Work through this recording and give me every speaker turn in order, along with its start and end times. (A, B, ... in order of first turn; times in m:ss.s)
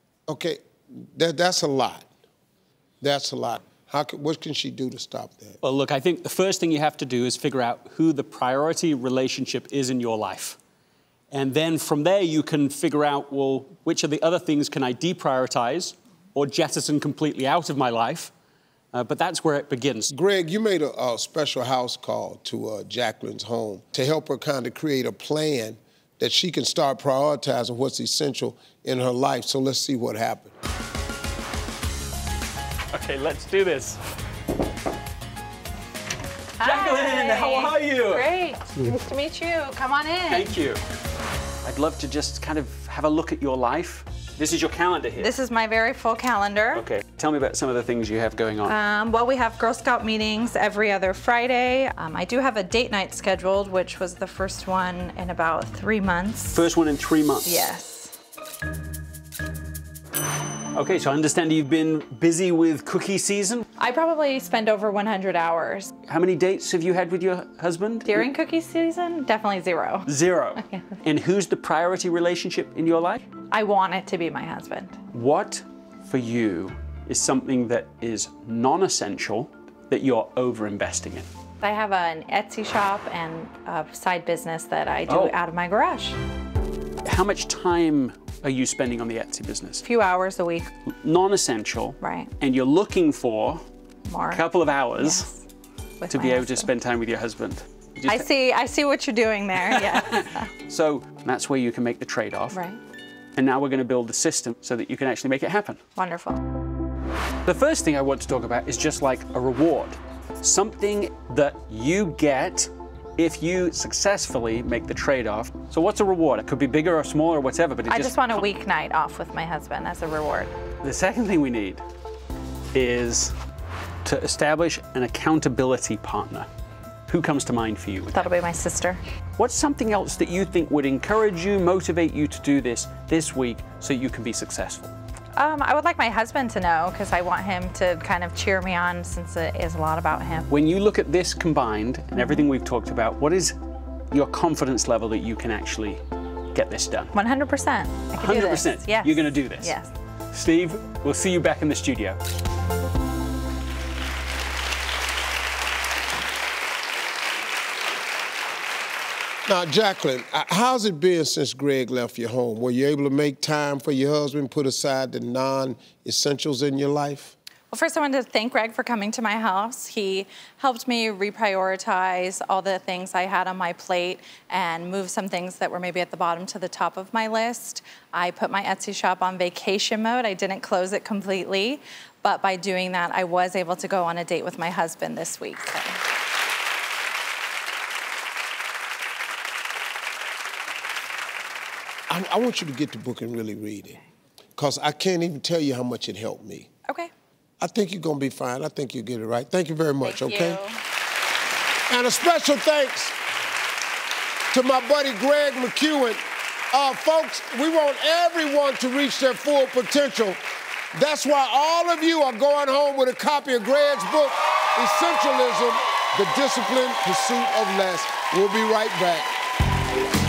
0:00.3-0:02.1 A
0:03.0-0:05.6 A
0:05.6-0:10.6 B
0:11.3-0:18.3 B
0:18.9-0:20.1 B
0:20.1-0:30.5 A
0:32.9-0:34.0 B
0:36.6-0:40.5 C
0:36.6-0:38.3 B
0:40.3-0:40.8 B
0:41.6-0:45.3 B
0:45.2-0:46.8 C
0:46.7-0:48.8 B
0:48.6-0:56.6 C
0:56.5-0:57.7 B
0:57.4-0:58.1 C
1:00.7-1:03.6 B
1:03.8-1:05.9 C
1:06.0-1:08.3 B
1:08.0-1:10.1 C
1:10.0-1:13.2 B
1:10.6-1:11.0 C
1:13.5-1:15.0 C
1:15.1-1:21.3 B
1:21.6-1:26.2 C
1:25.1-1:25.4 B
1:27.0-1:29.8 B
1:29.8-1:30.7 C
1:30.8-1:33.6 B
1:32.0-1:32.3 C
1:34.0-1:34.4 C
1:34.3-1:35.3 B
1:35.0-1:35.4 C
1:36.0-1:36.7 C
1:36.1-1:38.3 B
1:38.1-1:40.5 C
1:39.6-1:42.6 B
1:42.5-1:42.8 C
1:43.4-1:45.8 B
1:46.0-1:46.4 C
1:47.4-1:58.4 B
1:57.9-2:00.5 C
2:00.8-2:01.8 B
2:02.7-2:03.3 B
2:04.0-2:06.5 B
2:07.1-2:08.2 B
2:08.1-2:09.0 C
2:09.4-2:14.9 B
2:15.4-2:20.5 C
2:20.5-2:23.6 B
2:24.1-2:26.0 B
2:26.5-2:27.1 B
2:27.1-2:29.9 C
2:28.1-2:29.7 B
2:30.3-2:32.2 B
2:39.5-2:47.3 A
2:47.7-3:06.0 C
3:12.1-3:14.0 A
3:14.6-3:16.7 A
3:17.6-3:20.6 A
3:20.0-3:20.8 C
3:21.9-3:23.1 A
3:24.5-3:26.2 A
3:26.7-3:30.4 A
3:30.9-3:39.3 A